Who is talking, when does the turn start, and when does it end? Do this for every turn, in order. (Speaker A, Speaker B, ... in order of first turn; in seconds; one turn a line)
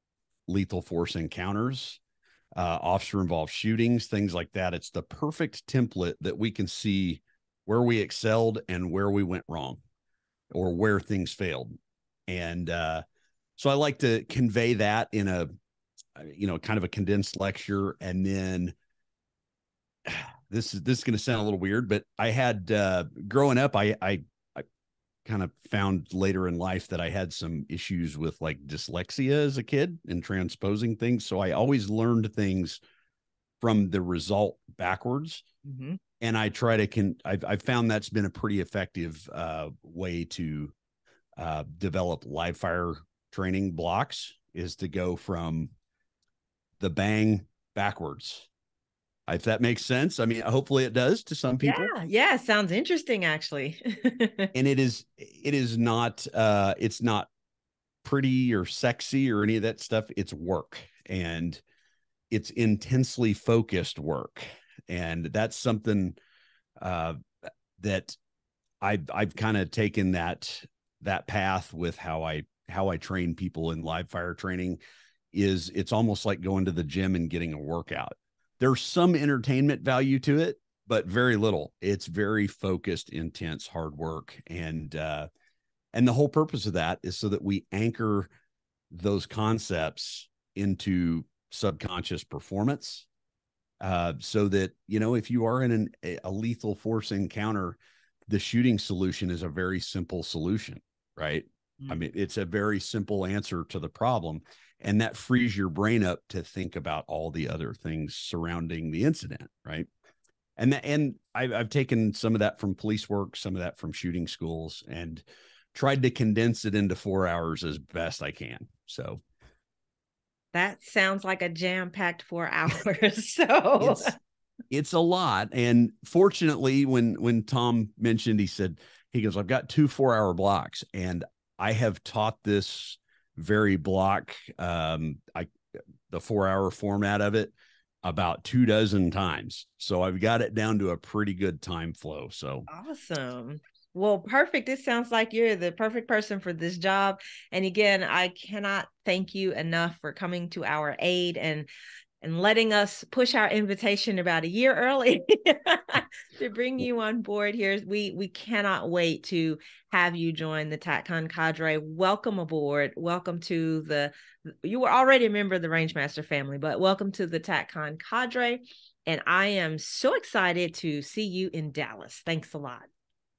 Speaker A: 0.5-2.0
Speaker A: 2.6-9.8
Speaker A: 10.5-11.8
Speaker A: 12.3-13.0
Speaker A: 13.6-15.5
Speaker A: 16.2-18.7
Speaker A: 20.1-24.6
Speaker A: 25.2-32.8
Speaker A: 33.6-35.5
Speaker B: 35.6-36.0
Speaker A: 36.2-40.7
Speaker A: 41.4-45.7
Speaker A: 46.8-48.5
Speaker A: 49.3-51.9
Speaker B: 51.6-54.5
Speaker A: 54.5-57.3
Speaker A: 58.0-61.6
Speaker A: 62.3-66.2
Speaker A: 66.8-67.2
Speaker A: 67.8-68.2
Speaker A: 68.8-74.8
Speaker A: 75.3-85.3
Speaker A: 85.9-88.3
Speaker A: 88.9-93.1
Speaker A: 93.8-109.9
Speaker A: 110.6-119.2
Speaker B: 120.5-124.2
Speaker A: 123.8-124.1
Speaker A: 124.7-135.5
Speaker A: 136.1-142.7
Speaker B: 142.7-151.7
Speaker B: 152.2-172.9